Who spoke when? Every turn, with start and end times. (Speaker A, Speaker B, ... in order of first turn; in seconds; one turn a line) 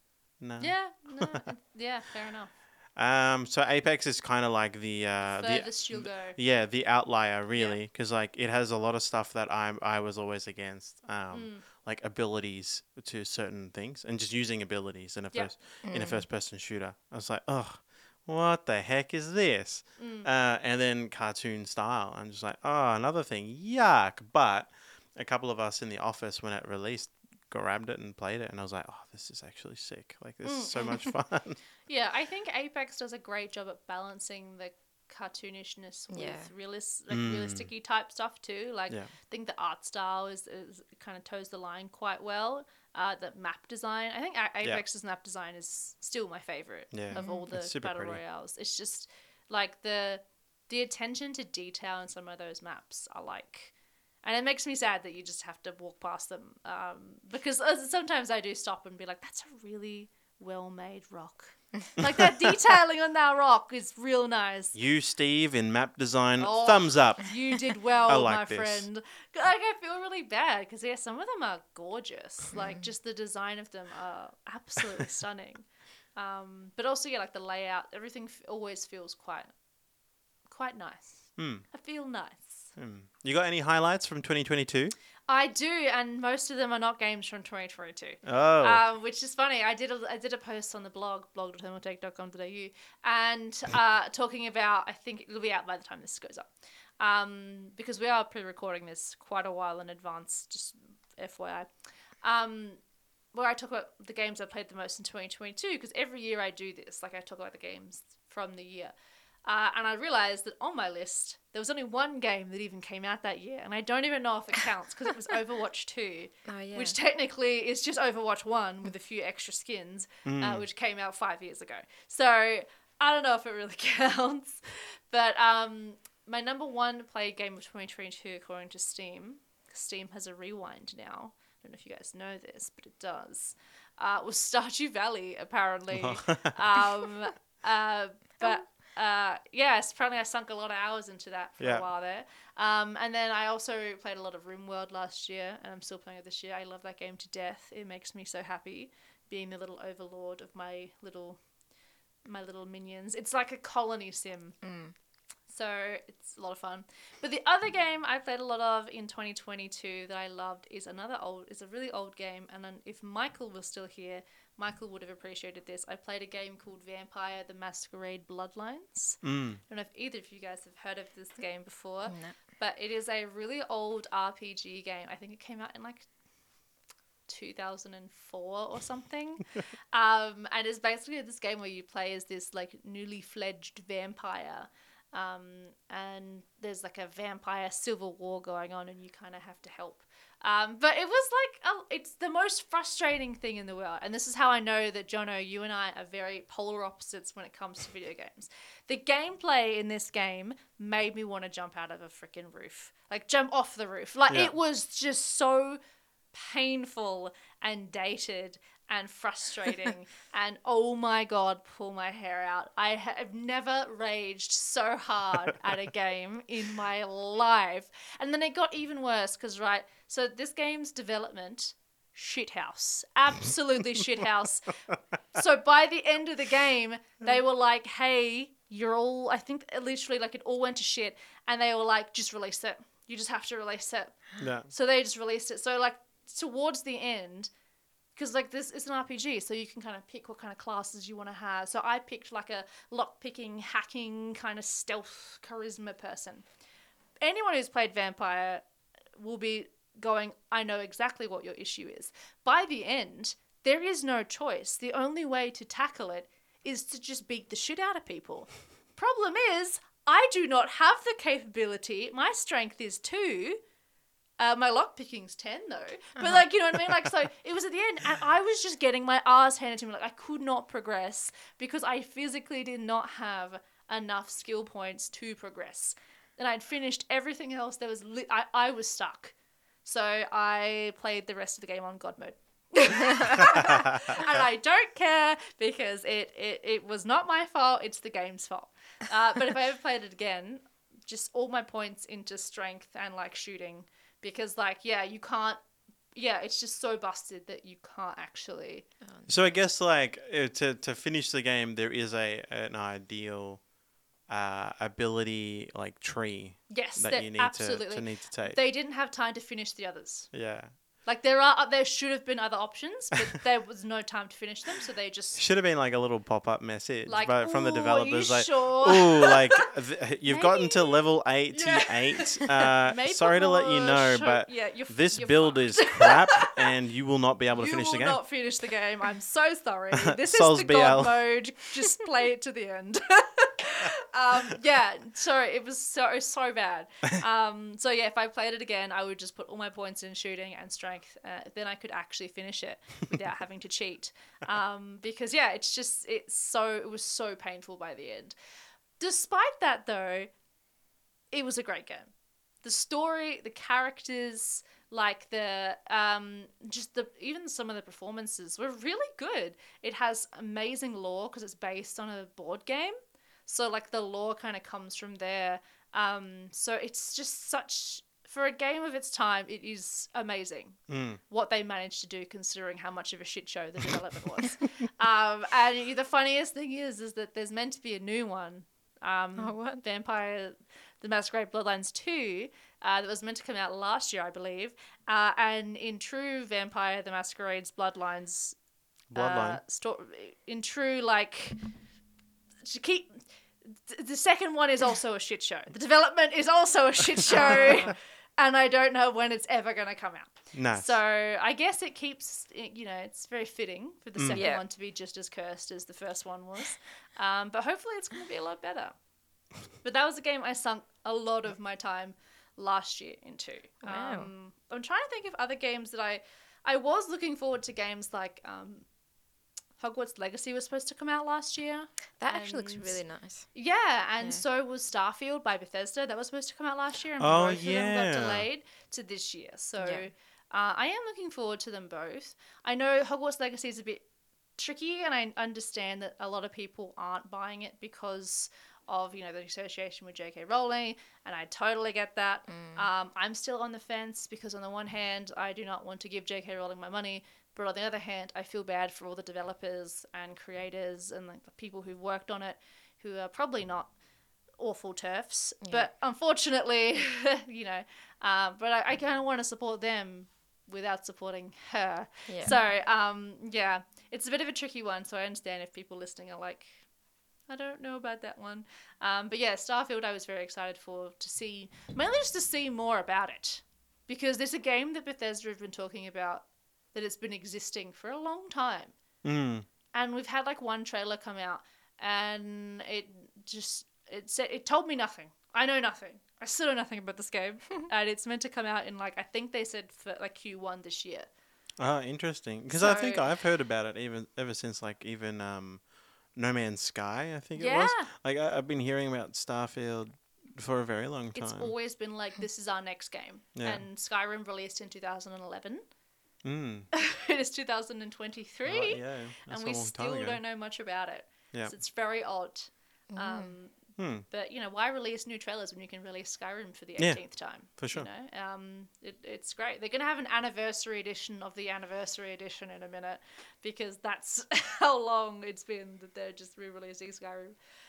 Speaker A: 0.4-1.5
Speaker B: 0.6-2.5
Speaker A: 3.0-31.6
Speaker B: 5.3-6.4
Speaker B: 11.3-11.6
Speaker C: 15.8-16.2
Speaker B: 20.0-20.3
Speaker B: 30.4-31.1
Speaker B: 31.9-53.7
Speaker C: 36.1-36.5
Speaker A: 37.1-37.7
Speaker A: 46.9-48.2
Speaker C: 47.1-47.5
Speaker B: 54.2-64.7
Speaker A: 64.7-68.9
Speaker B: 66.4-75.6
Speaker B: 76.2-79.5
Speaker B: 80.5-82.7
Speaker A: 81.4-81.7
Speaker A: 82.8-84.9
Speaker B: 85.3-96.5
Speaker A: 88.2-88.8
Speaker B: 97.0-101.7
Speaker B: 102.2-102.8
Speaker B: 103.3-108.9
Speaker B: 109.5-151.4
Speaker C: 116.5-117.0
Speaker A: 120.3-120.7
Speaker A: 135.9-136.9
Speaker A: 141.6-141.8
Speaker B: 152.3-154.6
Speaker C: 154.6-154.9
Speaker B: 155.5-176.1
Speaker A: 169.2-169.6
Speaker C: 172.1-172.3
Speaker B: 177.3-205.8
Speaker B: 206.3-224.8
Speaker B: 225.3-237.5
Speaker A: 234.4-234.7
Speaker B: 238.2-246.4
Speaker B: 247.2-248.6
Speaker B: 249.2-263.6
Speaker B: 264.4-295.6
Speaker B: 296.1-298.9
Speaker C: 299.1-299.5
Speaker A: 299.3-303.6
Speaker A: 304.3-308.6
Speaker B: 306.7-310.3
Speaker A: 310.3-310.7
Speaker B: 311.1-315.4
Speaker A: 315.4-328.2
Speaker B: 317.1-319.6
Speaker B: 320.3-326.6
Speaker B: 327.5-348.3
Speaker A: 330.0-331.2
Speaker B: 349.0-350.3
Speaker B: 351.3-352.1
Speaker B: 352.6-362.9
Speaker B: 363.5-370.8
Speaker A: 370.9-371.2
Speaker B: 371.3-388.6
Speaker C: 379.4-379.8
Speaker A: 389.1-389.6
Speaker B: 389.1-391.6
Speaker B: 392.6-408.9
Speaker A: 400.5-401.0
Speaker A: 404.2-404.5
Speaker C: 404.3-404.6
Speaker B: 409.8-418.9
Speaker C: 413.8-414.3
Speaker B: 419.8-423.0
Speaker C: 422.2-423.5
Speaker B: 423.5-434.0
Speaker A: 427.2-428.5
Speaker C: 429.8-430.1
Speaker B: 434.6-453.9
Speaker C: 442.5-442.8
Speaker B: 454.6-466.8
Speaker C: 455.6-455.9
Speaker C: 462.3-462.6
Speaker B: 467.5-478.9
Speaker A: 479.2-479.6
Speaker B: 479.9-491.3
Speaker A: 491.8-495.8
Speaker B: 492.7-493.3
Speaker A: 496.4-501.7
Speaker B: 497.6-498.1
Speaker B: 501.3-505.8
Speaker A: 503.6-503.8
Speaker A: 506.4-506.9
Speaker B: 506.9-513.8
Speaker A: 508.6-510.4
Speaker C: 513.1-513.5
Speaker A: 514.0-514.3
Speaker B: 514.3-527.5
Speaker A: 517.0-518.1